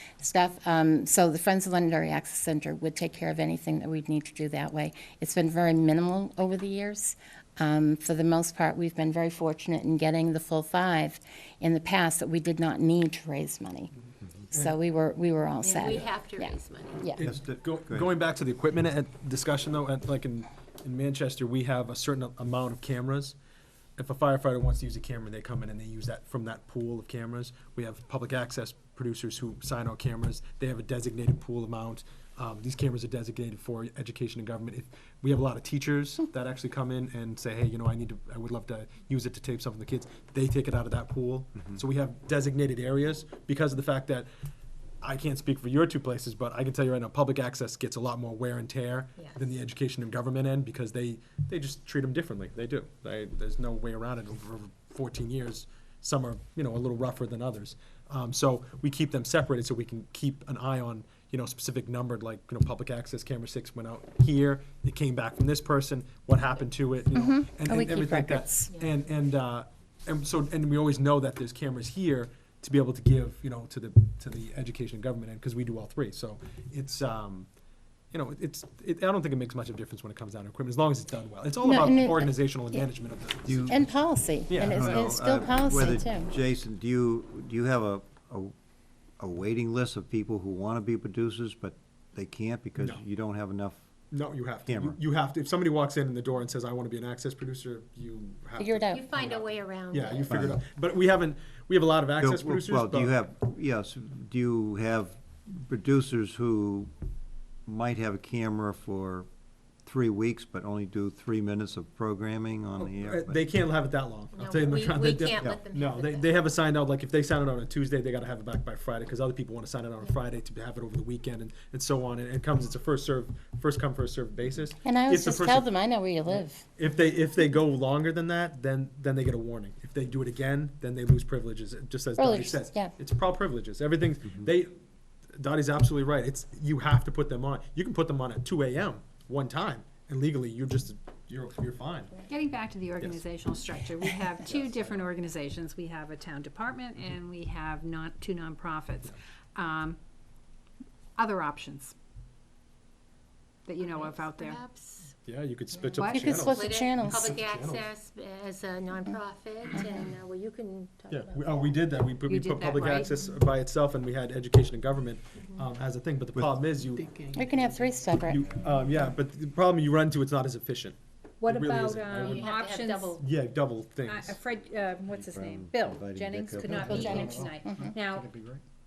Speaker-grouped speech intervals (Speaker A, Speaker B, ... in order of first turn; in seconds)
Speaker A: 0.2-13.9, 14.5-17.2, 67.1-68.7, 81.6-82.9, 83.6-86.3, 98.6-99.1, 124.8-126.6, 132.2-132.9, 156.0-157.3, 159.8-160.0, 167.3-168.4, 176.8-177.9
Speaker B: 15.6-17.1, 49.2-49.5, 98.9-100.4, 114.3-116.4, 153.8-155.1, 156.5-161.8, 172.2-173.2
Speaker C: 17.1-23.4, 24.0-44.3, 45.0-77.5, 78.1-83.8, 84.5-85.1, 94.1-103.1, 112.8-125.7, 126.3-134.7, 135.3-142.2, 144.4-145.1, 155.2-157.9, 161.1-167.6, 168.3-172.5, 173.2-174.4
Speaker D: 17.2-18.1, 83.5-83.8, 84.7-88.5, 89.2-93.8, 94.7-95.0, 100.3-100.6, 102.2-106.9, 107.7-109.3, 109.8-113.4, 175.1-177.5, 178.1-178.6
Speaker E: 142.3-150.0, 151.2-151.9, 153.7-154.6, 155.9-156.4, 162.3-163.1, 171.4-173.2, 174.1-178.3